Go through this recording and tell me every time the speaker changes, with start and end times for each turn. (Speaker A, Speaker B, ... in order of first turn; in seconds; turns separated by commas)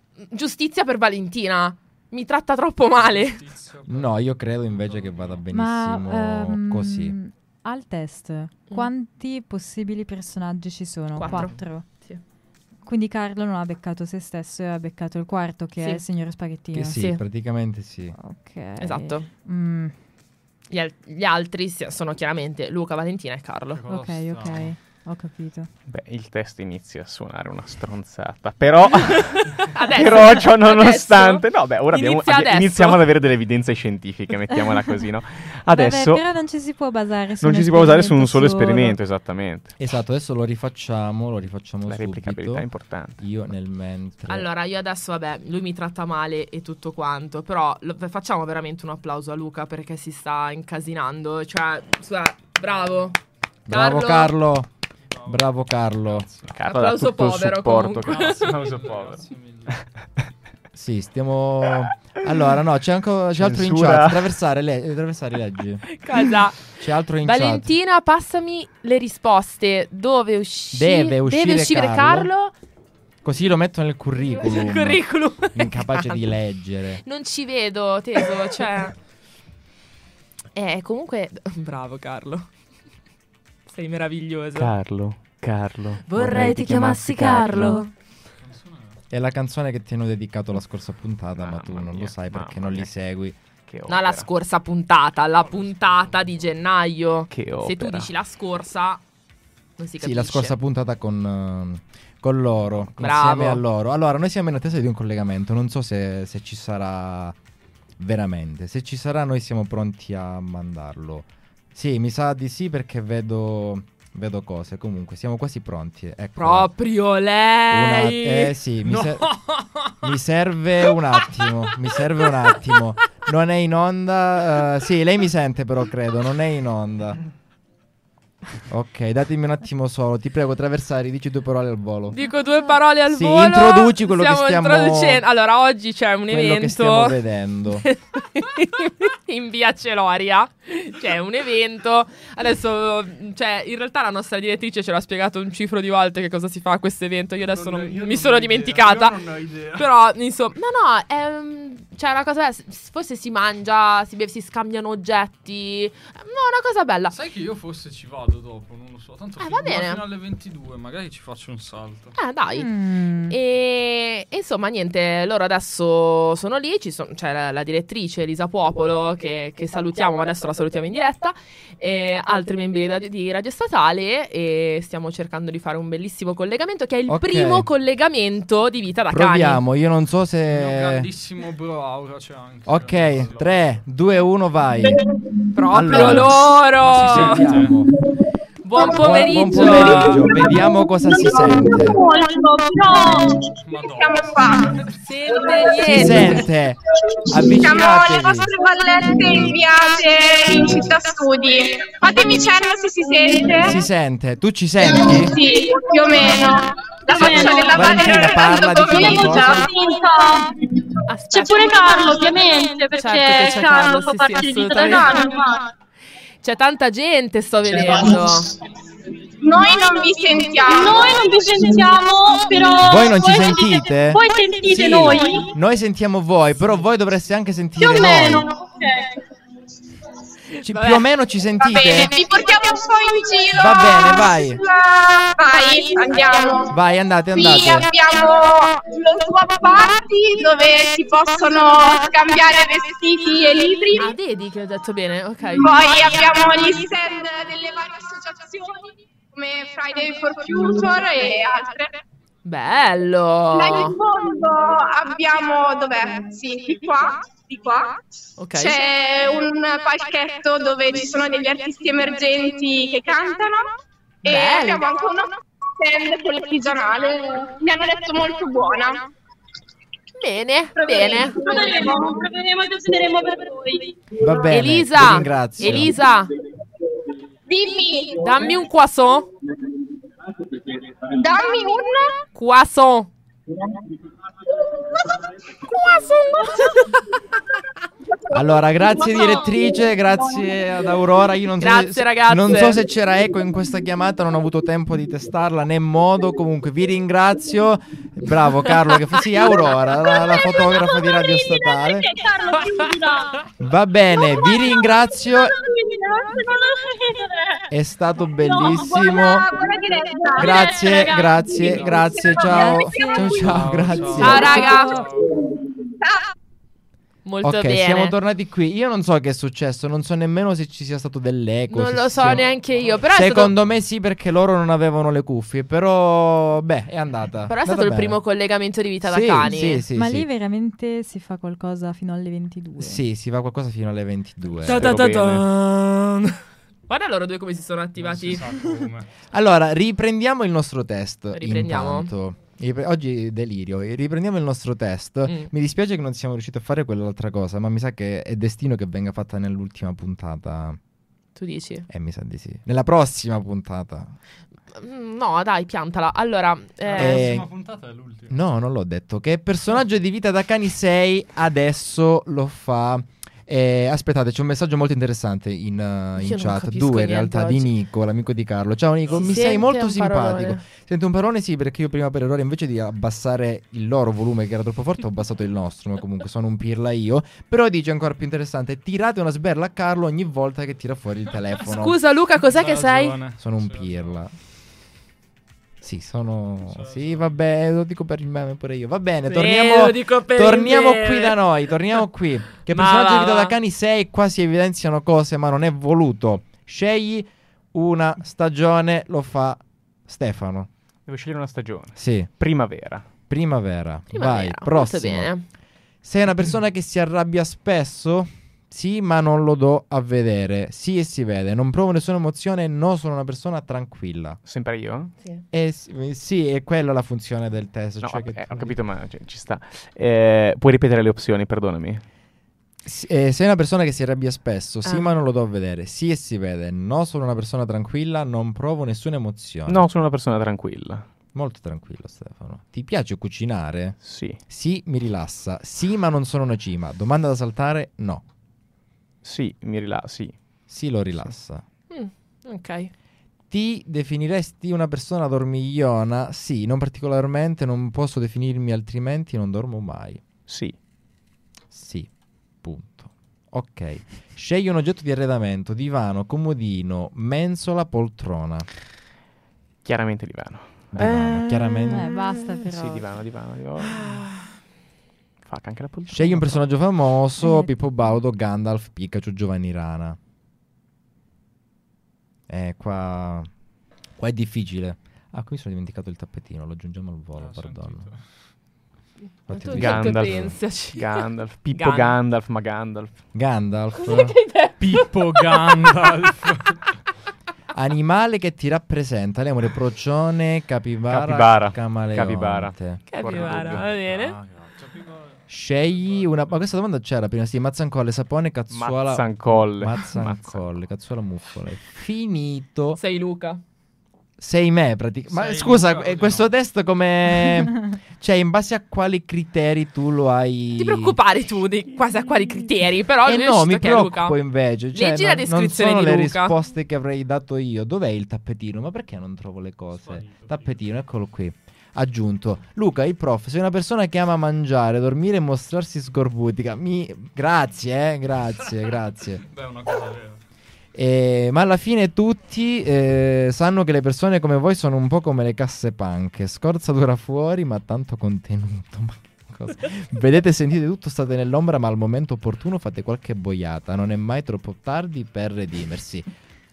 Speaker A: 0.2-3.5, Speaker B: 3.0-5.4, Speaker C: 3.9-7.2, Speaker D: 5.5-11.9, Speaker A: 11.2-12.2, Speaker D: 12.8-17.0, Speaker C: 16.7-18.1, Speaker A: 16.9-17.2, Speaker D: 18.1-19.9, Speaker A: 18.8-19.3, Speaker A: 20.7-23.8, Speaker B: 23.7-24.7, Speaker D: 23.9-25.7, Speaker E: 25.9-36.2, Speaker A: 29.6-33.0, Speaker D: 35.7-39.0, Speaker E: 37.4-39.7, Speaker C: 39.8-42.7, Speaker E: 41.9-43.2, Speaker C: 43.2-44.5, Speaker A: 44.3-54.3, Speaker C: 53.7-54.7, Speaker B: 55.1-55.5, Speaker C: 55.2-56.3, Speaker B: 56.1-56.6, Speaker E: 56.5-59.8, Speaker A: 56.6-58.7, Speaker B: 58.0-59.9, Speaker C: 60.7-65.8, Speaker E: 63.3-64.3, Speaker A: 66.0-72.5, Speaker C: 66.8-67.7, Speaker C: 70.7-72.3, Speaker C: 73.2-77.0, Speaker A: 74.2-76.3, Speaker A: 77.0-79.0, Speaker A: 80.5-82.5, Speaker A: 83.7-84.7, Speaker E: 84.5-87.8, Speaker A: 86.1-87.9, Speaker D: 87.5-87.8, Speaker B: 88.4-89.0, Speaker C: 89.1-93.3, Speaker E: 91.4-92.9, Speaker E: 93.7-94.3, Speaker A: 93.9-99.0, Speaker B: 95.4-96.5, Speaker E: 97.3-98.1, Speaker A: 99.8-100.5, Speaker C: 100.0-107.3, Speaker A: 103.0-103.6, Speaker C: 108.0-116.7, Speaker A: 116.4-118.5, Speaker C: 117.7-119.3, Speaker B: 118.8-120.0, Speaker C: 120.0-127.2, Speaker C: 128.7-132.2, Speaker A: 132.1-137.2, Speaker C: 133.1-135.2, Speaker C: 136.3-137.8, Speaker A: 137.7-157.1, Speaker B: 147.5-149.9, Speaker B: 157.1-162.2, Speaker A: 159.4-160.1, Speaker A: 162.2-162.7, Speaker D: 162.5-163.4, Speaker A: 163.3-179.6, Speaker C: 177.1-177.7, Speaker C: 179.1-181.1, Speaker B: 180.4-183.8, Speaker C: 182.7-185.0, Speaker A: 185.5-187.4, Speaker C: 185.7-187.9, Speaker B: 186.8-187.9, Speaker A: 188.6-190.5, Speaker C: 188.8-192.0, Speaker F: 190.0-193.3, Speaker G: 190.0-193.4, Speaker B: 193.6-194.9, Speaker F: 193.8-196.4, Speaker A: 194.9-196.5, Speaker C: 195.8-198.5, Speaker F: 197.2-203.8, Speaker C: 203.6-205.4, Speaker F: 204.8-210.1, Speaker G: 207.1-208.2, Speaker C: 207.2-209.7, Speaker G: 208.8-210.6, Speaker A: 211.1-215.3, Speaker G: 211.3-215.6, Speaker F: 214.8-215.5, Speaker A: 216.4-218.5, Speaker F: 219.4-221.9, Speaker G: 220.6-225.5, Speaker C: 222.8-228.5, Speaker F: 224.9-225.4, Speaker G: 227.8-229.2, Speaker A: 230.6-231.1, Speaker C: 230.6-232.2, Speaker F: 231.6-236.7, Speaker C: 233.5-234.6, Speaker C: 236.7-237.9, Speaker F: 237.3-244.1, Speaker A: 244.0-245.8, Speaker F: 245.6-252.0, Speaker A: 252.4-254.0, Speaker F: 253.5-258.0, Speaker A: 258.4-258.8, Speaker F: 258.5-269.1, Speaker A: 264.2-264.8, Speaker A: 270.2-271.6, Speaker F: 270.8-272.3, Speaker G: 271.2-273.9, Speaker C: 274.2-275.9, Speaker A: 274.5-276.3, Speaker F: 277.5-278.5, Speaker A: 278.2-279.3, Speaker F: 281.1-282.2, Speaker A: 282.3-283.1, Speaker F: 284.8-285.1, Speaker A: 285.7-287.0, Speaker F: 286.0-286.5, Speaker C: 288.3-302.1, Speaker F: 289.2-289.5, Speaker A: 291.6-292.8, Speaker G: 300.0-303.4, Speaker C: 303.6-305.6, Speaker G: 304.1-307.6, Speaker C: 307.7-309.5, Speaker G: 308.3-312.7, Speaker F: 308.7-311.2, Speaker C: 310.4-314.6, Speaker B: 311.6-312.2, Speaker F: 311.9-313.3, Speaker D: 312.4-315.0, Speaker B: 313.4-315.4, Speaker A: 314.1-315.1, Speaker F: 315.3-316.2, Speaker A: 317.2-318.1, Speaker C: 317.4-322.4, Speaker A: 321.7-323.5, Speaker B: 322.2-323.7, Speaker C: 323.1-328.2, Speaker A: 327.5-329.8, Speaker C: 329.0-330.3, Speaker D: 329.9-333.0, Speaker C: 332.8-334.9, Speaker A: 334.6-338.6, Speaker E: 334.6-335.5, Speaker B: 337.9-339.1, Speaker C: 339.3-350.8, Speaker A: 341.3-342.1, Speaker A: 351.4-351.9, Speaker C: 351.9-354.1, Speaker A: 354.7-357.3, Speaker B: 356.8-358.4, Speaker C: 356.9-357.5, Speaker C: 358.3-382.0, Speaker A: 366.2-367.7, Speaker A: 369.1-370.6, Speaker A: 381.7-383.2, Speaker B: 382.4-384.1, Speaker C: 383.4-384.3, Speaker C: 385.8-400.7, Speaker B: 386.7-387.3, Speaker A: 389.2-391.4, Speaker A: 392.7-393.5, Speaker E: 401.1-403.0, Speaker C: 401.9-402.3, Speaker C: 403.3-405.3, Speaker A: 404.1-405.4, Speaker C: 406.0-414.4, Speaker E: 414.4-415.1, Speaker C: 415.5-418.8, Speaker E: 418.0-422.0, Speaker C: 422.8-429.9, Speaker E: 429.7-431.1, Speaker C: 431.3-438.2, Speaker E: 434.0-434.4, Speaker E: 439.2-440.4, Speaker C: 440.7-441.6, Speaker A: 441.9-442.9, Speaker C: 443.5-450.2, Speaker E: 450.5-450.8, Speaker C: 451.7-452.1, Speaker C: 452.6-458.7, Speaker E: 459.8-462.0, Speaker C: 460.9-462.1, Speaker D: 461.9-463.1, Speaker E: 462.7-464.2, Speaker A: 463.8-464.4, Speaker E: 465.4-466.7, Speaker C: 466.1-470.2, Speaker D: 467.4-467.7, Speaker C: 472.5-473.5, Speaker C: 474.2-478.1, Speaker B: 477.4-478.2, Speaker C: 479.5-480.5, Speaker A: 479.5-482.2, Speaker E: 479.7-483.2, Speaker C: 483.3-484.4, Speaker A: 484.0-486.1, Speaker B: 484.8-486.8, Speaker C: 487.7-493.0, Speaker E: 491.1-493.9, Speaker A: 493.1-494.4, Speaker B: 493.2-496.6, Speaker C: 495.5-503.0, Speaker E: 498.7-500.7, Speaker A: 503.0-503.6, Speaker C: 504.4-511.2, Speaker B: 505.3-506.5, Speaker A: 510.8-514.4, Speaker C: 513.2-529.5, Speaker A: 514.9-516.5, Speaker B: 520.0-520.7, Speaker B: 529.4-530.4, Speaker C: 530.9-546.3